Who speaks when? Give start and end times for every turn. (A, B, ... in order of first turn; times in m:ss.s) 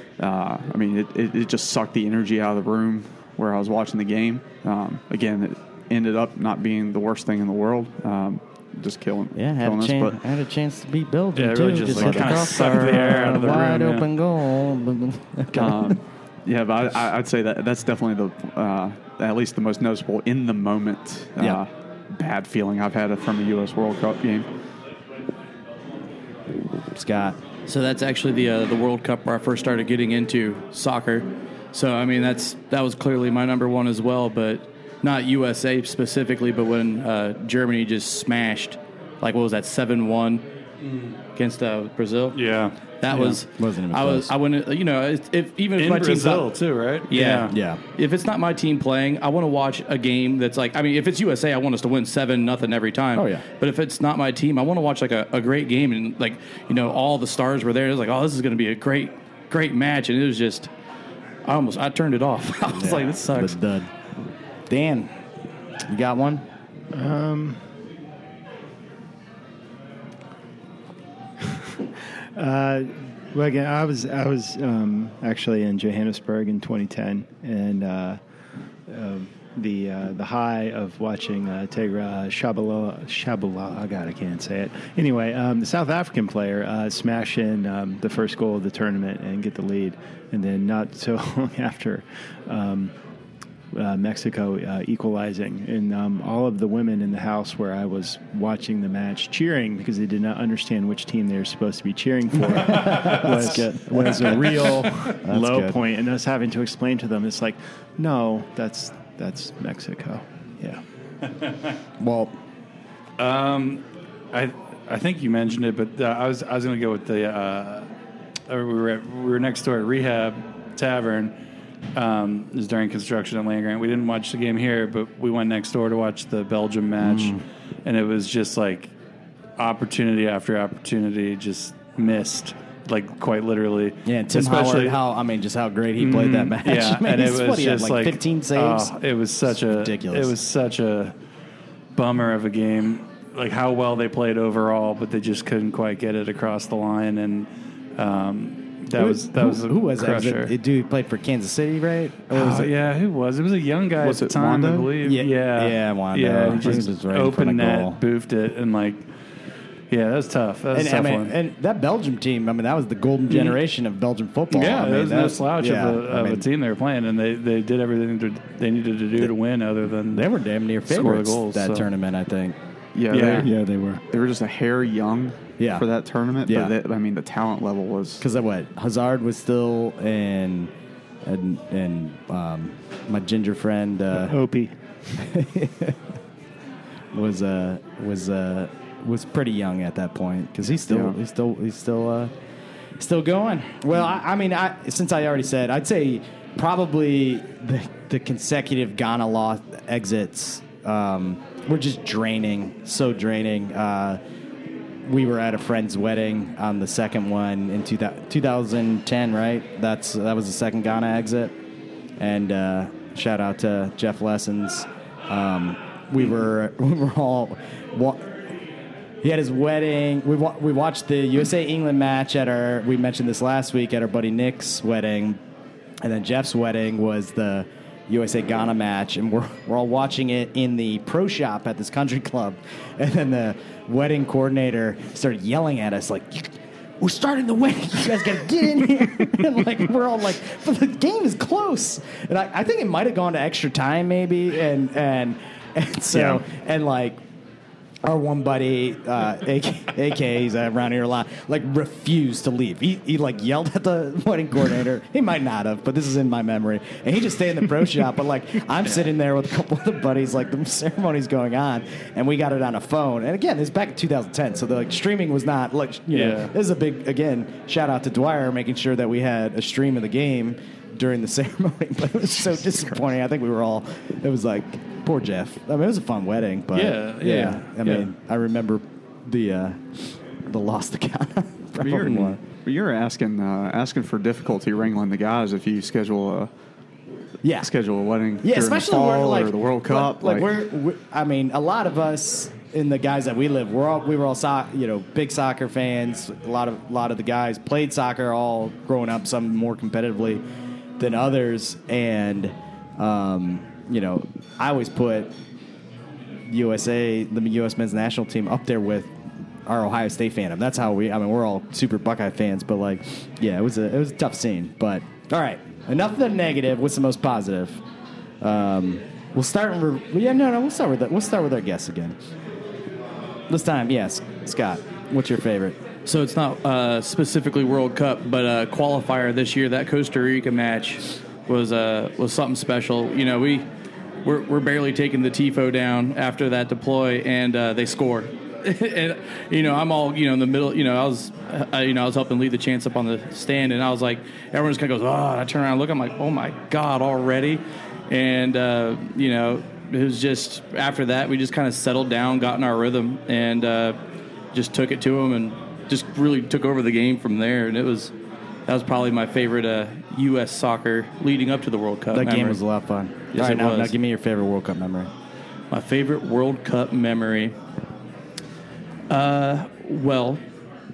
0:00.2-0:10.2 A
0:09.3-0:15.9 B
0:11.4-0:14.1 C
0:12.0-0:12.5 A
0:15.5-0:24.5 A
0:26.9-0:27.4 B
0:27.7-0:40.4 D
0:41.4-0:42.4 D
0:42.4-0:42.8 C
0:43.0-0:46.5 D
0:43.1-0:44.3 B
0:45.8-0:47.6 C
0:47.1-1:00.7 D
0:47.1-0:47.8 B
0:53.2-0:53.4 B
1:01.4-1:03.6 D
1:02.7-1:03.9 B
1:04.7-1:05.1 B
1:05.9-1:06.4 B
1:06.9-1:07.6 E
1:12.4-1:18.2 E
1:18.9-1:32.9 E
1:33.7-1:50.8 E
1:42.6-1:45.8 B
1:52.0-1:52.3 B
1:53.2-1:57.9 C
1:58.5-2:01.3 C
2:02.0-2:08.9 C
2:07.0-2:07.4 B
2:09.6-2:15.0 C
2:14.1-2:18.9 B
2:16.0-2:21.1 C
2:19.4-2:20.3 B
2:22.0-2:30.5 C
2:28.9-2:32.7 B
2:32.3-2:39.0 C
2:34.0-2:34.9 A
2:35.0-2:38.0 B
2:39.9-2:41.3 C
2:40.7-2:46.4 B
2:43.3-2:43.6 C
2:44.5-2:50.3 C
2:50.1-2:52.6 B
2:50.9-2:51.9 C
2:53.0-2:53.5 A
2:53.1-2:53.5 C
2:53.4-2:54.0 E
2:54.1-2:58.2 A
2:56.5-2:56.7 B
2:58.2-3:00.7 B
3:01.2-3:04.4 B
3:04.1-3:04.8 E
3:05.2-3:06.0 B
3:07.1-3:12.3 B
3:10.9-3:11.2 A
3:13.0-3:24.2 B
3:25.1-3:31.5 B
3:32.2-3:38.3 B
3:39.2-3:45.4 B
3:46.0-4:07.2 B
4:06.1-4:06.4 E
4:08.0-4:42.4 B
4:26.1-4:26.5 C
4:36.7-4:38.1 C
4:41.8-4:46.5 A
4:47.4-4:47.7 B
4:47.6-4:50.5 A
4:48.4-5:00.4 B
5:01.0-5:05.3 B
5:06.5-5:09.1 B
5:09.7-5:17.8 B
5:18.4-5:22.2 B
5:23.5-5:25.8 B
5:26.1-5:33.7 D
5:34.2-5:54.0 D
5:54.5-5:58.1 D
5:58.7-6:02.6 D
6:02.1-6:05.1 B
6:03.3-6:04.0 D
6:05.7-6:07.6 D
6:09.1-6:10.4 D